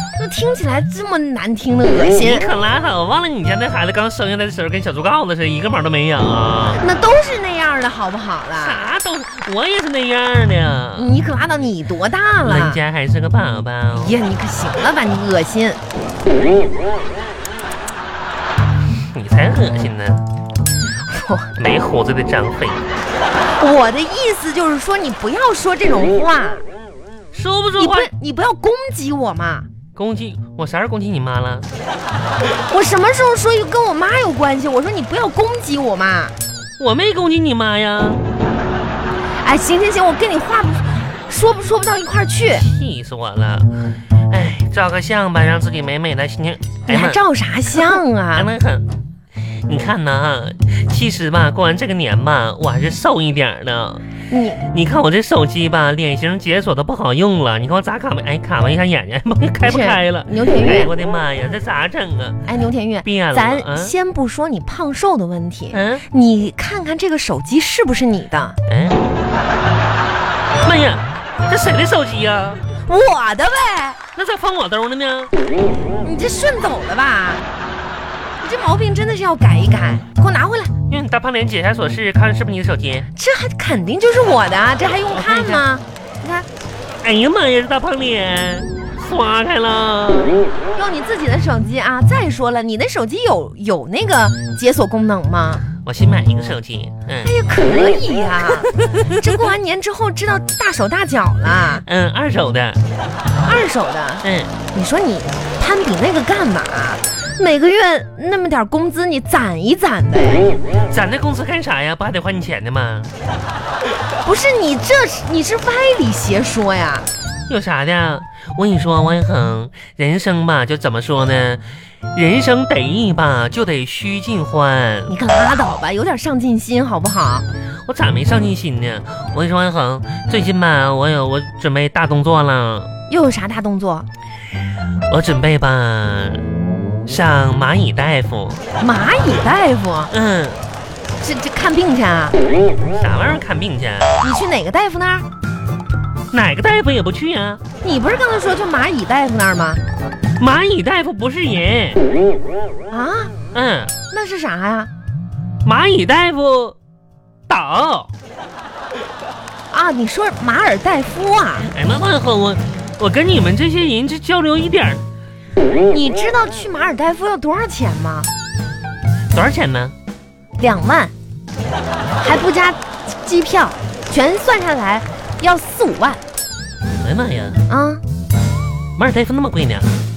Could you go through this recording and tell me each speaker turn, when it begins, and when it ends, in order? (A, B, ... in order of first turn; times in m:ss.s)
0:00.2-0:02.5 A
0:02.1-0:06.8 B
0:06.8-0:08.9 A
0:08.6-0:11.1 B
0:11.0-0:12.8 A
0:12.4-0:14.2 B
0:14.0-0:15.8 A
0:19.1-0:20.2 B
0:21.0-0:21.5 A
0:21.6-0:22.9 B
0:23.6-0:26.6 A
0:27.3-0:28.1 B
0:27.8-0:29.7 A
0:29.9-0:31.7 B
0:32.7-0:36.3 A
0:36.8-0:38.2 B
0:39.4-0:42.6 A
0:42.5-0:43.7 B
0:44.3-0:47.2 B
0:46.9-0:48.5 A
0:47.7-0:48.8 B
0:49.7-0:54.0 B
0:54.3-0:54.6 A
0:54.6-1:02.4 B
0:59.6-1:00.9 A
1:02.5-1:08.6 A
1:03.0-1:03.9 B
1:05.7-1:06.0 B
1:08.7-1:09.0 B
1:10.6-1:12.7 B
1:12.8-1:14.0 A
1:14.2-1:15.3 B
1:16.0-1:17.5 A
1:18.4-1:20.7 A
1:20.9-1:23.1 B
1:23.1-1:26.5 A
1:25.0-1:25.6 B
1:27.0-1:30.4 B
1:30.7-1:35.6 A
1:35.8-1:37.3 B
1:37.2-1:41.8 A
1:41.8-1:42.8 B
1:43.4-1:50.5 A
1:44.2-1:44.5 B
1:50.9-1:53.1 B
1:54.2-1:57.1 A
1:57.5-2:05.2 B
2:05.1-2:07.5 A
2:07.8-2:12.9 B
2:13.1-2:14.1 A
2:15.1-2:16.4 B
2:17.0-2:18.6 B
2:18.8-2:20.1 A
2:20.1-2:20.6 B
2:21.2-2:22.4 A
2:23.0-2:24.1 B
2:24.2-2:25.3 A
2:26.3-2:27.6 B
2:27.8-2:29.8 A
2:30.4-2:32.0 B
2:32.9-2:33.3 A
2:33.5-2:33.9 B
2:34.1-2:34.9 A
2:35.6-2:36.8 B
2:37.5-2:38.1 B
2:39.7-2:41.7 A
2:41.7-2:45.0 B
2:45.9-2:48.3 A
2:49.3-2:49.9 B
2:50.6-2:51.1 A
2:52.2-2:56.2 A
2:57.0-2:57.6 B
2:57.7-2:58.0 A
2:59.0-2:59.9 B